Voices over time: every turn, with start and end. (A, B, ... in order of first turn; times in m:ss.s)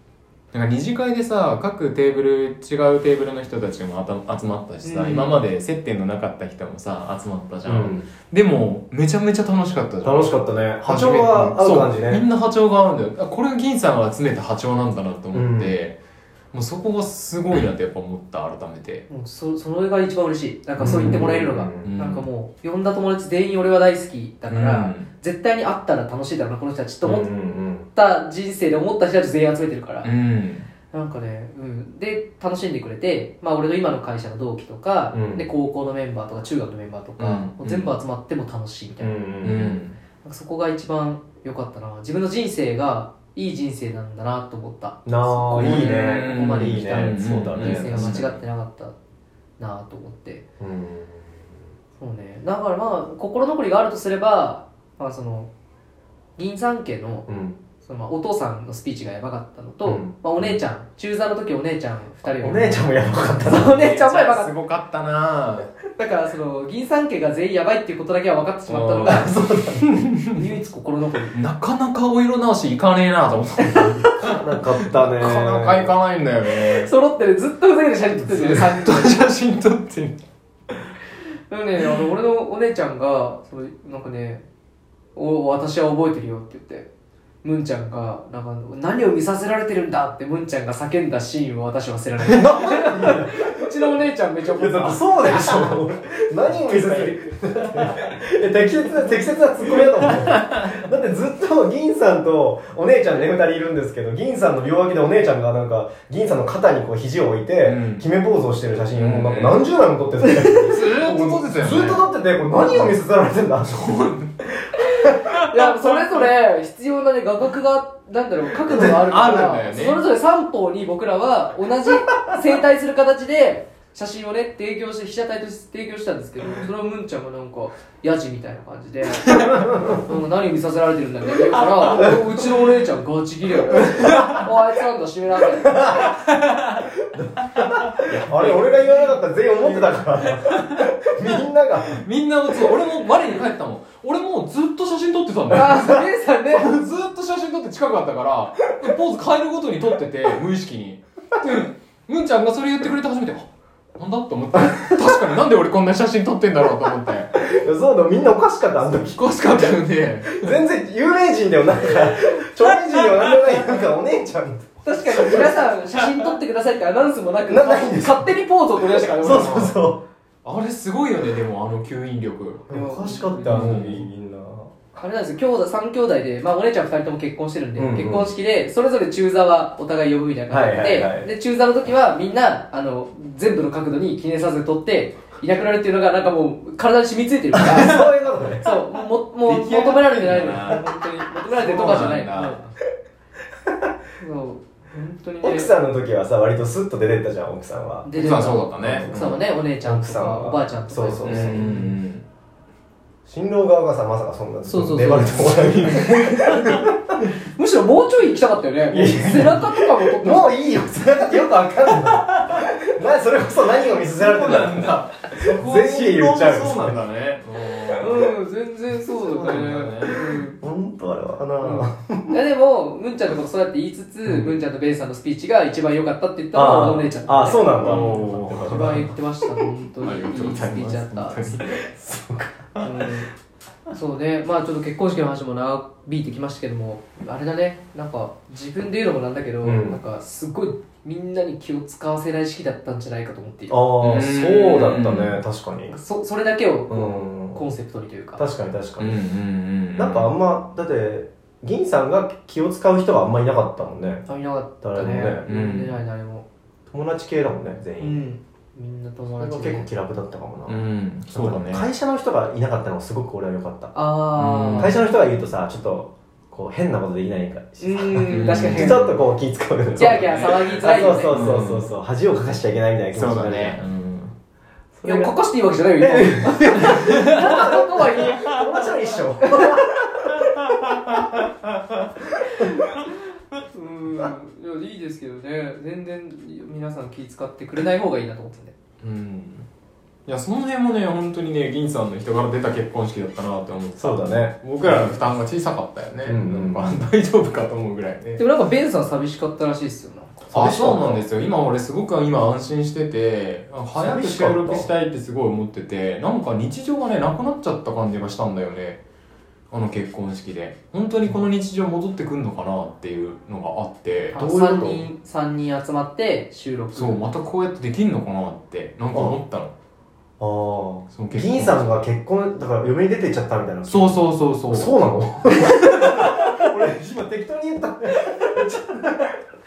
0:00.5-0:16.0 A
0:04.8-0:05.5 B
0:07.6-0:08.1 C
0:10.0-0:12.2 C
0:15.3-0:15.7 C
0:16.5-0:19.1 A
0:19.1-0:27.3 B
0:20.8-0:21.9 C
0:20.8-0:22.2 A
0:24.5-0:25.1 A
0:27.0-0:27.9 C
0:27.9-0:30.1 B
0:30.0-0:30.7 A
0:30.9-0:39.2 B
0:35.1-0:35.4 C
0:37.2-0:37.9 A
0:39.0-0:39.8 C
0:39.4-0:40.0 A
0:40.2-0:48.9 B
0:45.1-0:48.2 C
0:45.6-0:48.4 A
0:49.6-0:50.4 B
0:50.6-0:51.3 C
0:52.0-0:55.5 B
0:56.4-0:57.3 B
0:57.3-0:57.6 C
0:57.8-1:02.9 B
0:59.9-1:00.6 C
1:02.4-1:03.8 C
1:03.4-1:04.5 B
1:03.7-1:05.7 A
1:06.0-1:09.3 B
1:08.7-1:09.3 A
1:09.0-1:10.0 C
1:09.9-1:10.4 A
1:10.4-1:11.4 B
1:11.3-1:16.9 A
1:14.2-1:16.0 C
1:16.6-1:19.3 B
1:18.2-1:20.2 A
1:21.5-1:24.4 B
1:25.2-1:26.9 B
1:27.4-1:35.4 B
1:32.3-1:33.8 C
1:34.5-1:53.8 C
1:35.3-1:35.7 A
1:36.5-1:37.2 A
1:39.8-1:40.7 A
1:47.6-1:48.1 A
1:49.0-1:49.7 A
1:50.6-1:53.0 A
1:53.7-1:54.4 A
1:54.6-1:55.2 C
1:55.2-1:56.2 A
1:55.5-2:16.1 B
1:58.7-2:00.0 A
2:09.3-2:09.6 A
2:09.4-2:10.0 C
2:11.6-2:12.4 A
2:13.9-2:14.4 A
2:16.1-2:16.9 A
2:17.1-2:22.0 C
2:17.6-2:20.9 A
2:21.9-2:37.4 A
2:25.5-2:26.7 B
2:37.4-2:39.2 C
2:38.8-2:40.6 A
2:40.3-2:45.7 C
2:44.8-2:49.8 B
2:47.5-2:48.3 C
2:49.2-2:50.0 C
2:50.4-2:52.7 A
2:52.7-2:53.8 B
2:52.7-2:54.7 C
2:53.4-2:54.0 A
2:55.0-3:08.0 B
2:57.8-2:58.3 C
3:00.5-3:01.3 C
3:07.6-3:08.7 C
3:08.6-3:12.7 B
3:09.4-3:10.8 A
3:11.4-3:12.6 A
3:14.2-3:15.7 B
3:15.4-3:18.1 C
3:18.0-3:22.0 B
3:18.1-3:19.4 A
3:18.8-3:21.7 C
3:21.2-3:22.2 A
3:23.3-3:26.9 C
3:24.7-3:26.3 B
3:25.2-3:26.9 A
3:27.6-3:30.5 B
3:28.9-3:37.0 C
3:32.0-3:32.6 A
3:34.0-3:38.3 A
3:38.0-3:40.6 B
3:39.1-3:40.2 A
3:40.6-3:42.4 C
3:41.6-3:51.6 B
3:44.3-3:44.6 C
3:46.5-3:49.1 C
3:47.8-3:49.1 A
3:50.0-3:51.8 A
3:51.7-3:52.9 C
3:52.8-3:53.3 B
3:53.9-4:03.8 B
3:59.6-4:00.0 C
4:03.7-4:05.9 C
4:04.0-4:05.4 A
4:05.9-4:08.4 B
4:06.9-4:07.6 C
4:08.4-4:09.2 C
4:09.0-4:10.3 A
4:10.0-4:14.2 C
4:14.3-4:16.4 B
4:14.8-4:15.4 C
4:15.5-4:16.0 A
4:16.9-4:18.2 C
4:18.0-4:19.9 B
4:19.4-4:20.8 C
4:20.7-4:21.9 A
4:21.3-4:23.9 C
4:23.9-4:25.0 B
4:24.4-4:25.0 A
4:24.8-4:33.8 C
4:27.8-4:29.1 B
4:28.2-4:29.1 A
4:29.9-4:30.7 A
4:30.0-4:31.4 B
4:31.3-4:31.9 A
4:33.1-4:34.3 A
4:35.0-4:35.3 C
4:35.0-4:38.5 B
4:36.0-4:40.5 C
4:36.7-4:37.6 A
4:39.4-4:39.8 B
4:40.5-4:41.3 A
4:43.7-4:48.7 B
4:49.0-4:49.7 A
4:50.3-4:58.4 A
4:54.0-4:55.1 C
4:56.2-4:57.0 C
4:58.4-5:00.5 B
5:00.5-5:09.0 A
5:00.5-5:01.2 C
5:04.0-5:04.9 C
5:09.7-5:14.4 A
5:14.3-5:17.3 B
5:14.4-5:15.1 C
5:16.9-5:19.7 A
5:19.1-5:19.4 C
5:20.4-5:29.4 C
5:21.1-5:22.1 A
5:23.9-5:25.0 A
5:25.6-5:26.5 A